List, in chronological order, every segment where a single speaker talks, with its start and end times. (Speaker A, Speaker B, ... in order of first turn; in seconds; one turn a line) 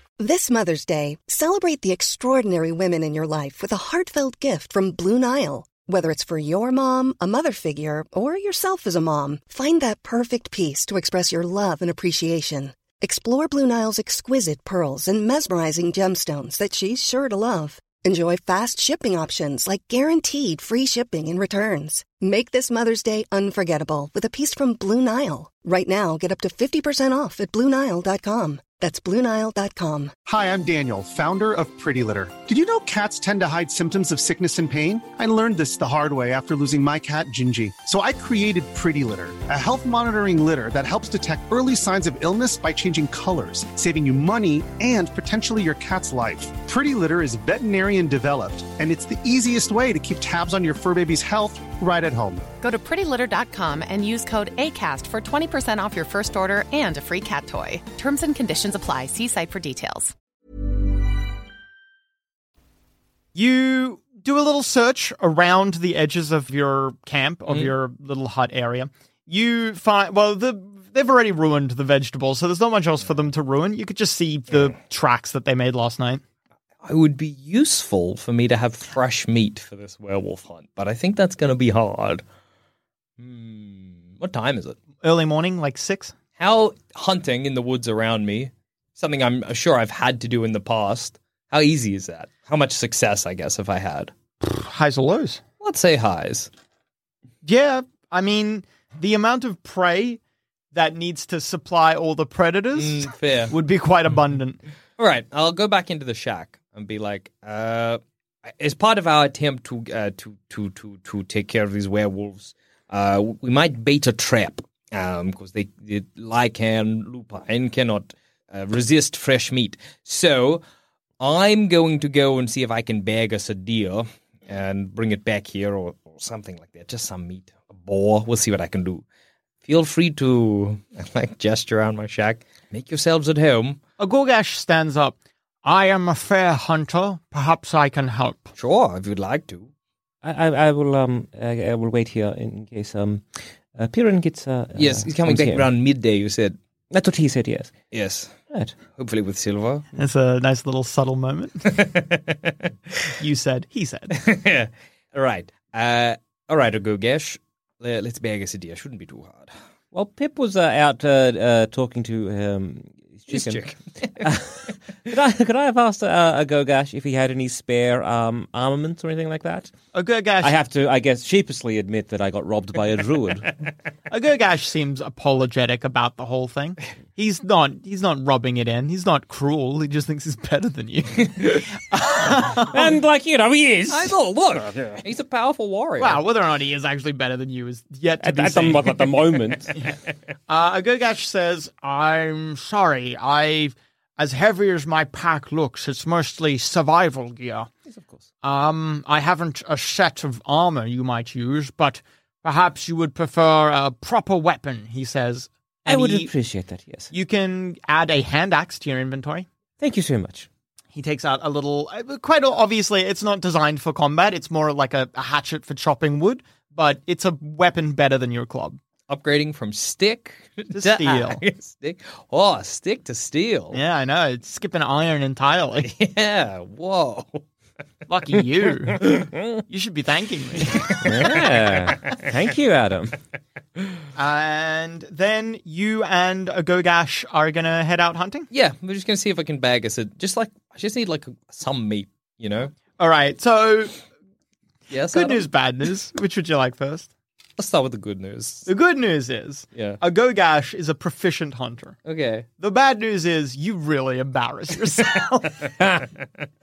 Speaker A: 0.2-30.1
Speaker B: 30.2-52.4
Speaker C: 52.6-60.1
Speaker D: 63.3-76.2
Speaker E: 76.8-82.2
Speaker E: 83.2-84.8
Speaker D: 85.0-86.1
Speaker E: 86.4-94.1
Speaker D: 94.4-95.4
Speaker E: 95.6-96.5
Speaker D: 97.4-100.2
Speaker D: 100.7-104.6
Speaker E: 102.7-103.5
Speaker E: 105.0-120.6
Speaker E: 121.2-129.0
Speaker E: 129.6-133.8
Speaker D: 134.0-138.5
Speaker E: 138.6-139.7
Speaker F: 140.2-145.7
Speaker E: 144.8-146.6
Speaker F: 146.9-147.7
Speaker E: 147.9-148.3
Speaker F: 148.5-148.8
Speaker E: 148.9-149.9
Speaker D: 149.9-151.7
Speaker E: 151.7-152.6
Speaker D: 153.2-154.2
Speaker E: 154.1-159.5
Speaker F: 159.9-163.6
Speaker E: 163.3-164.3
Speaker F: 164.2-169.7
Speaker D: 169.9-170.5
Speaker F: 170.4-173.5
Speaker D: 174.1-182.9
Speaker F: 182.7-184.1
Speaker E: 183.9-186.2
Speaker D: 186.0-189.1
Speaker F: 188.2-189.7
Speaker D: 190.5-197.7
Speaker F: 197.9-198.2
Speaker D: 198.4-206.3
Speaker F: 205.9-207.1
Speaker D: 207.1-209.4
Speaker F: 209.8-210.5
Speaker D: 210.9-218.8
Speaker E: 219.1-223.8
Speaker D: 220.7-221.4
Speaker D: 223.7-225.9
Speaker E: 225.8-227.4
Speaker D: 228.1-230.9
Speaker F: 231.0-233.2
Speaker D: 234.2-238.5
Speaker E: 238.5-242.7
Speaker D: 243.0-243.9
Speaker E: 244.9-245.5
Speaker D: 245.1-247.1
Speaker E: 247.6-248.7
Speaker D: 248.7-252.0
Speaker E: 249.7-250.0
Speaker E: 252.1-252.5
Speaker D: 252.6-256.0